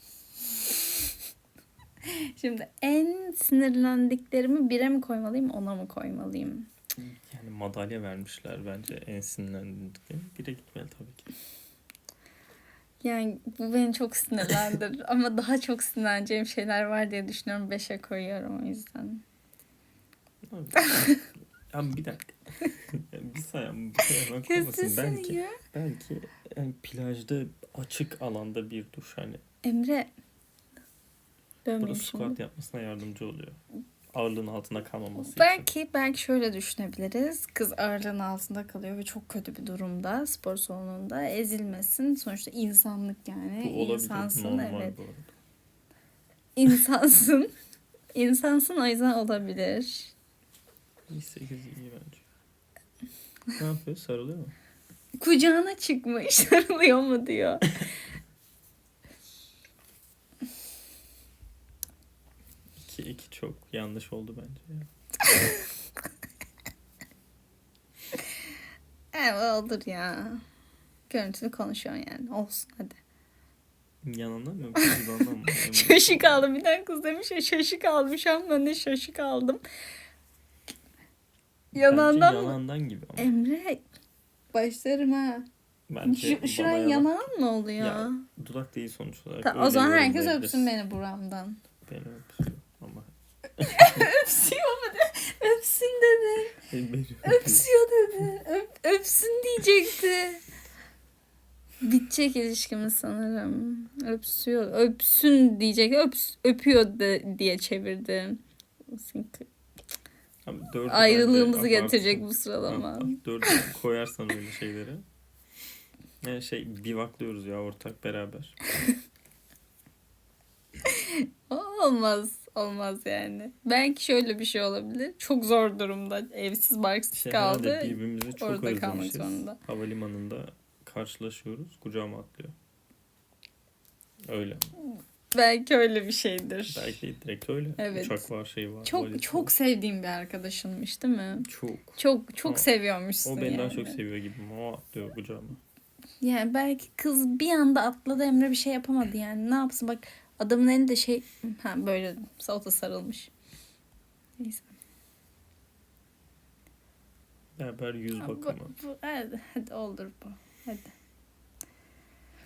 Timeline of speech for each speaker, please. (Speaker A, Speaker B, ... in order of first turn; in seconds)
Speaker A: 2.0-6.7, 13.0-19.2, 20.8-21.1, 24.4-25.6, 29.6-30.1, 31.6-32.4, 35.2-45.0, 46.5-47.5, 48.1-50.1, 55.2-57.7, 65.2-65.6, 69.1-70.4, 71.1-73.0, 75.6-79.6, 81.7-82.6, 83.2-83.8, 84.5-85.5, 86.0-88.2, 89.4-91.6, 93.6-96.6, 97.2-100.4, 101.8-109.5, 110.9-113.6, 120.9-129.6, 135.3-136.9, 137.8-138.2, 138.8-144.0, 146.2-153.3, 154.4-154.7, 158.2-160.9
Speaker B: 7.0-11.3, 20.4-29.4, 31.8-33.6, 34.1-35.7, 43.6-45.3, 51.1-52.2, 53.6-54.5, 62.8-64.9, 74.0-76.5, 81.7-83.3, 85.9-87.3, 87.8-90.7, 91.8-94.1, 96.7-97.7, 110.4-115.0, 116.2-118.6, 127.1-132.5, 134.3-134.7, 136.7-139.5, 141.4-142.7, 143.2-145.6, 157.6-158.7